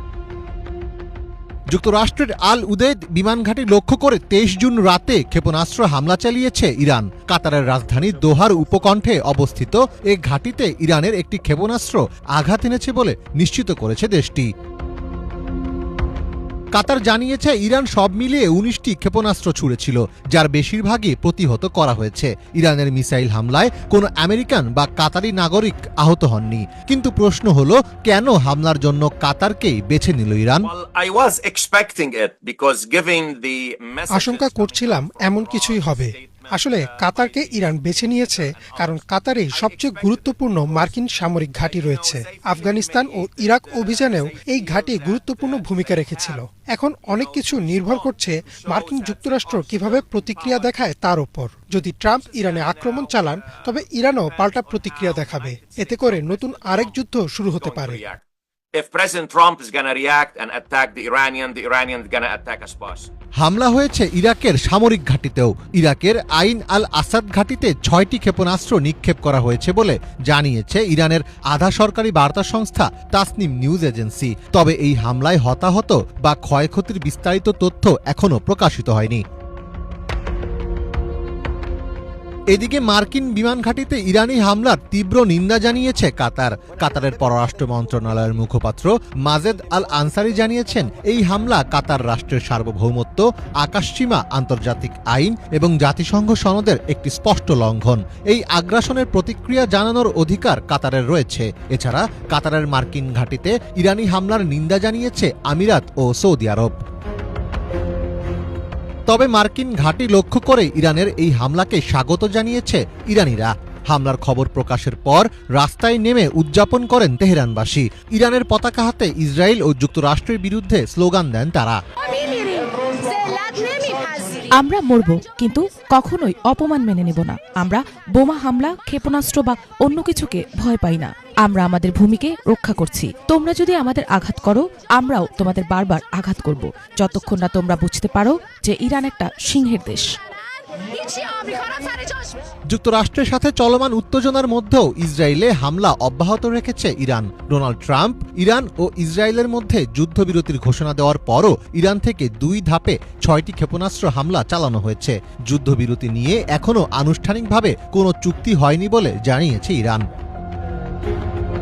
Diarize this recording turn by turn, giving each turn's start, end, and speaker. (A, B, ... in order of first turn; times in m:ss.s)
0:01.7-0:14.5 A
0:07.9-0:09.7 B
0:16.7-0:30.7 A
0:30.6-0:46.4 B
0:34.1-0:58.0 C
0:47.0-0:50.8 B
0:52.1-0:58.2 B
0:58.7-1:03.1 B
1:03.4-1:19.2 A
1:22.5-1:46.7 A
1:49.1-2:01.8 A
2:03.4-2:03.9 D
2:04.6-2:20.1 D
2:21.2-2:21.6 D
2:22.7-2:40.0 A